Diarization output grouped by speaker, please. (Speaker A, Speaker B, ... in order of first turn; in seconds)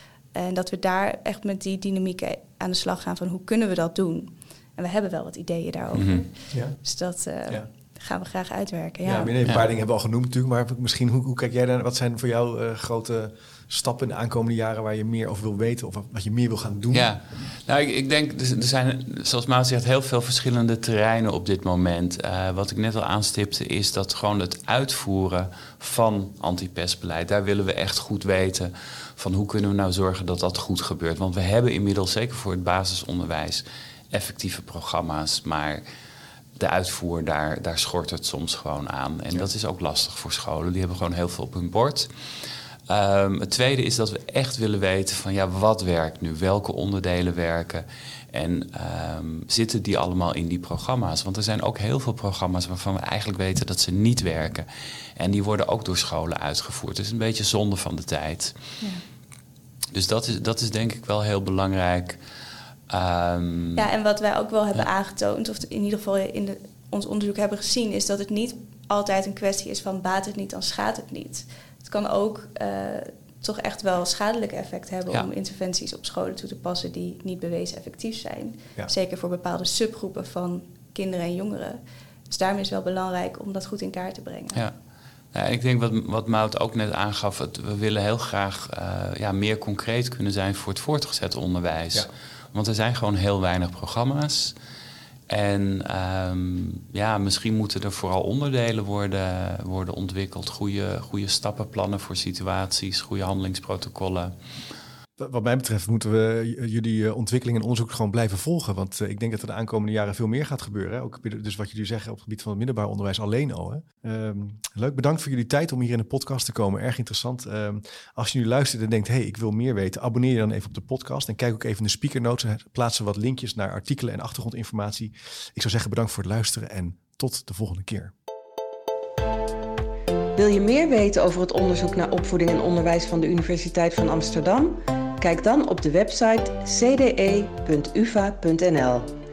Speaker A: 0.3-6.3, 6.8-9.4, 63.8-81.8, 82.3-84.6
Speaker B: 5.9-6.2, 16.9-35.8, 36.6-42.1, 42.9-58.5, 59.9-62.2, 62.9-63.9, 85.3-94.5, 95.3-104.3
Speaker C: 6.5-6.8, 9.0-17.1, 105.2-128.1
Speaker D: 130.3-139.1